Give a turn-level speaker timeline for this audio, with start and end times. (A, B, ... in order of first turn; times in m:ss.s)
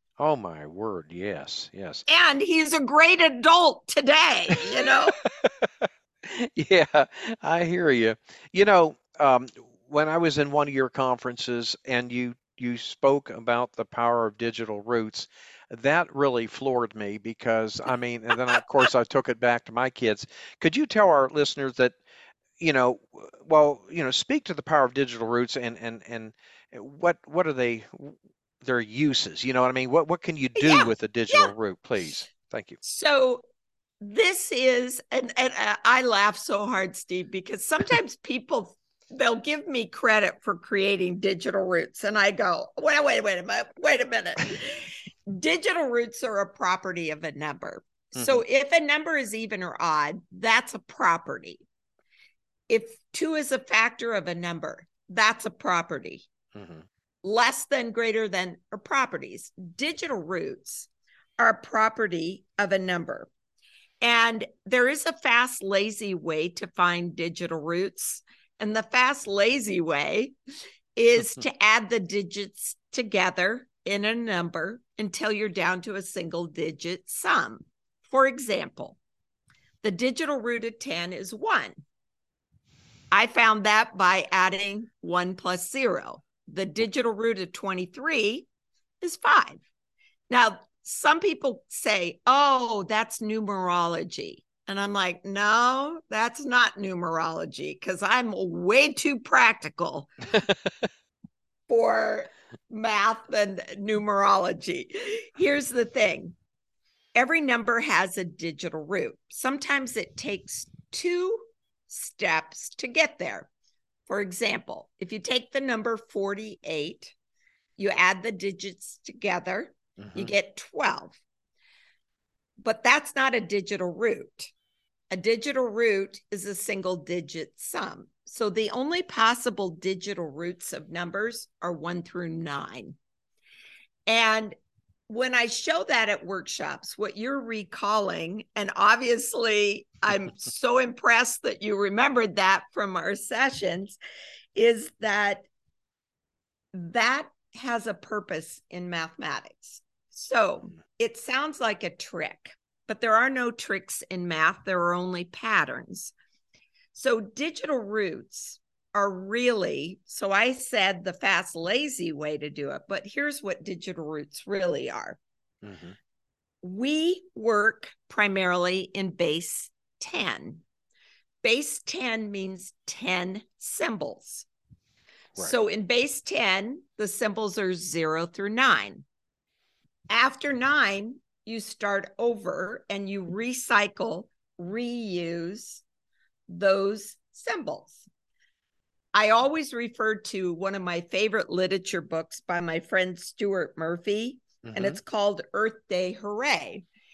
0:00.2-0:02.0 A
0:02.1-0:05.2 B
0:05.4-0:22.0 A
0:18.3-0:18.6 B
0:22.6-0:32.8 A
0:30.6-0:31.5 B
0:32.8-0:33.4 B
0:34.0-0:51.6 B
0:48.2-0:48.4 A
0:52.7-0:56.3 B
0:56.5-0:56.8 A
0:57.2-1:03.3 B
1:04.0-1:10.3 B
1:11.0-1:19.0 B
1:19.8-1:21.8 B
1:23.1-1:28.4 B
1:29.0-1:29.6 B
1:30.3-1:40.1 B
1:41.7-1:46.4 B
1:47.1-1:53.5 B
1:54.1-1:57.1 B
1:57.8-2:01.2 B
2:00.0-2:00.3 A
2:02.6-2:04.5 B
2:05.1-2:13.0 B
2:14.1-2:14.5 B
2:15.1-2:24.0 B
2:24.5-2:25.5 B
2:26.7-2:36.1 B
2:36.9-2:45.2 B
2:45.6-2:46.0 A
2:46.6-2:50.6 B
2:51.4-2:54.5 B
2:55.4-2:59.0 B
3:00.1-3:05.8 B
3:06.5-3:08.1 B
3:09.1-3:16.8 B
3:14.6-3:15.0 A